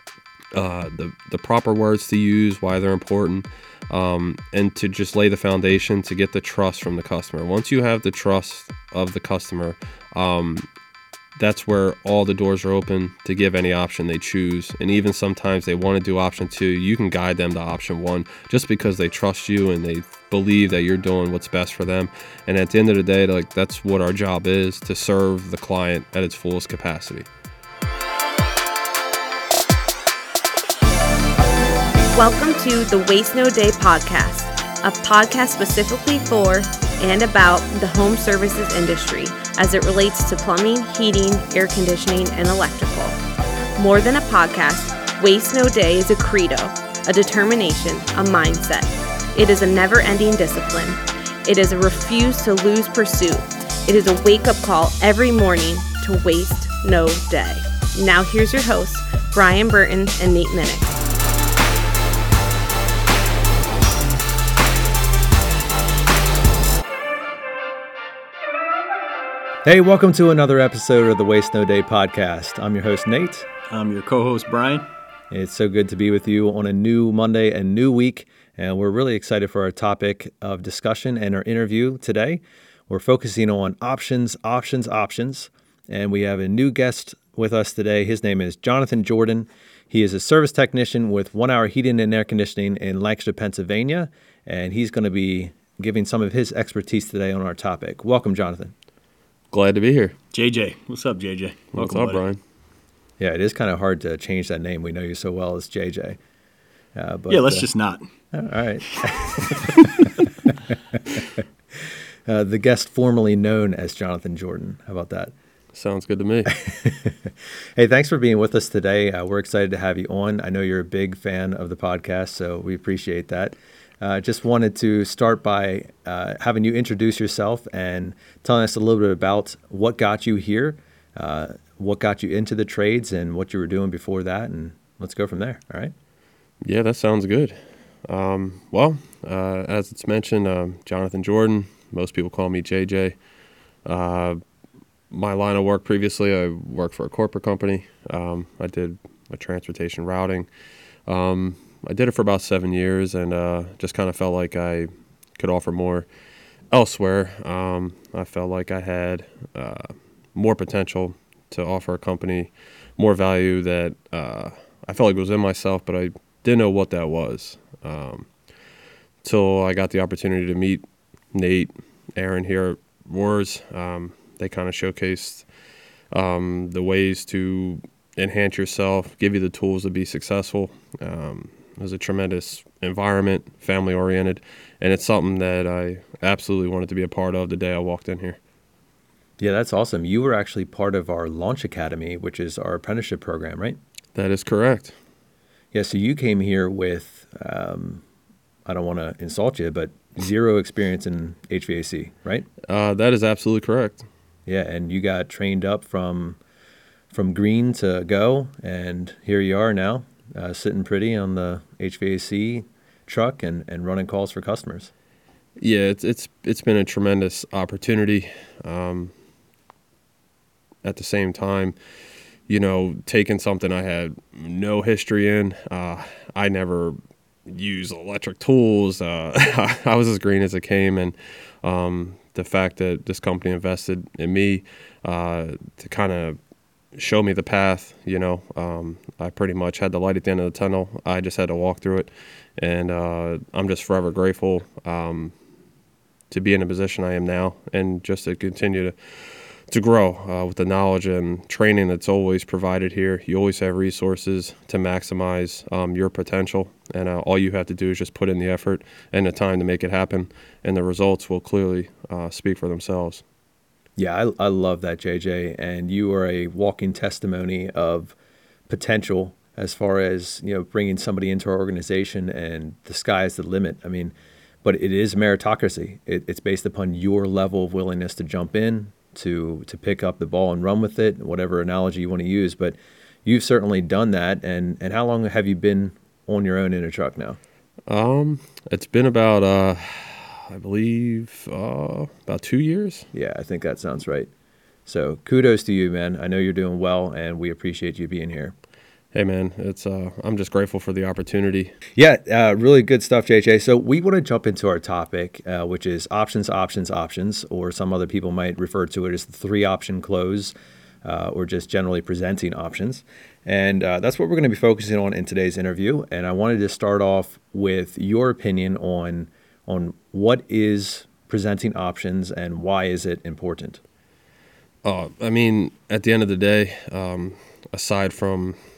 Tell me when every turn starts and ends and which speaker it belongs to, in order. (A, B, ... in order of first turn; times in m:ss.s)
0:00.5-0:10.7 A
0:11.4-0:27.3 A
0:32.1-0:43.2 B
0:43.8-1:01.0 B
1:09.6-1:13.5 C
1:13.7-1:14.9 D
1:15.3-1:38.7 C
1:39.5-1:40.2 A
1:40.3-1:42.2 D
1:41.7-1:42.4 A
1:43.2-1:46.2 C
1:46.9-1:47.7 C
1:47.3-1:48.0 D
1:48.3-1:55.3 C
1:55.7-1:56.5 A
1:56.5-2:15.9 C
2:16.6-2:23.2 A
2:23.8-2:24.4 A
2:25.1-2:30.5 A
2:31.1-2:36.1 A
2:36.7-2:48.3 A
2:49.2-2:55.4 A
2:56.1-3:08.4 A
3:09.4-3:13.8 C
3:14.1-3:14.9 A
3:15.7-3:18.0 C
3:18.7-3:22.5 C
3:22.7-3:24.0 A
3:24.4-3:26.4 C
3:27.1-3:34.9 C
3:35.6-3:39.1 A
3:40.8-3:41.8 A
3:42.5-3:56.4 A
3:56.9-4:05.3 A
4:06.3-4:23.2 A
4:24.0-4:28.1 C
4:28.7-4:34.1 C
4:34.6-4:47.4 C
4:47.9-4:53.1 A
4:53.1-4:54.3 C
4:54.9-4:58.6 C
4:59.1-5:01.8 A
5:02.0-5:23.8 C
5:24.8-5:28.6 A